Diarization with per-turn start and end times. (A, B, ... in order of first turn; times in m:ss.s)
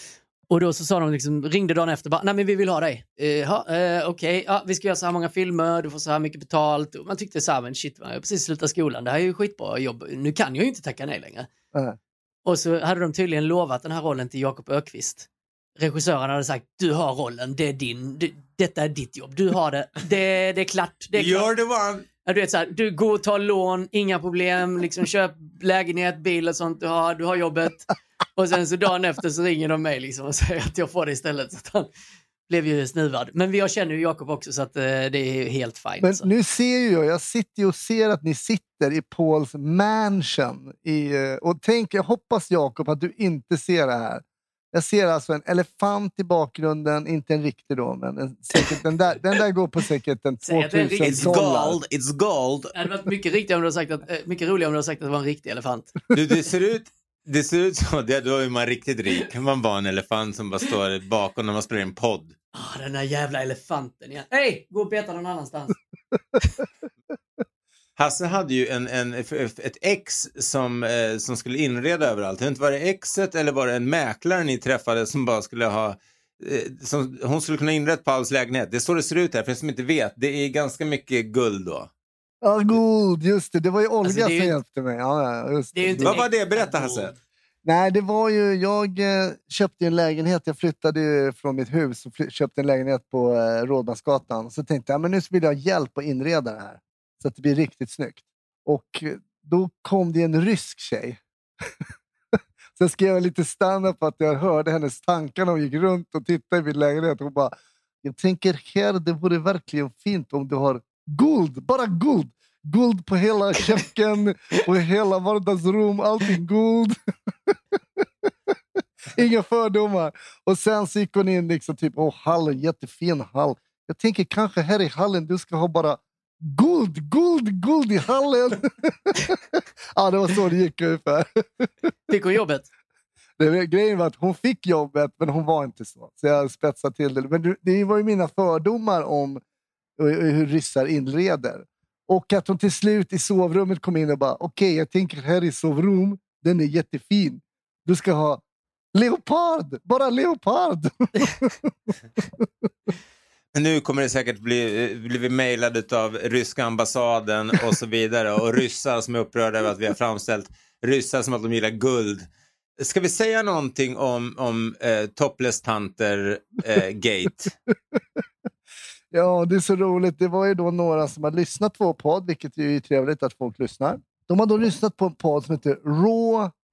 0:00.5-0:11.5 A
0:12.4-0:21.5 A
0:21.2-0:22.1 B
0:22.2-0:31.9 A
0:32.5-0:36.3 A
0:36.0-0:51.8 C
0:50.4-0:51.4 A
0:51.0-0:52.8 B
0:52.7-0:56.0 A
0:56.1-1:02.4 B
1:02.6-1:05.8 A
1:08.0-1:21.9 B
1:22.4-1:26.1 C
1:24.0-1:24.6 A
1:25.8-1:27.1 A
1:26.0-1:27.1 B
1:27.6-1:41.2 C
1:42.8-1:57.0 C
1:57.5-1:58.3 C
1:59.2-2:11.7 C
2:12.1-2:12.7 A
2:13.4-2:19.4 C
2:20.0-2:28.4 C
2:28.9-2:31.7 C
2:33.5-2:42.3 B
2:42.8-2:47.6 B
2:47.9-2:48.2 C
2:49.1-2:56.5 C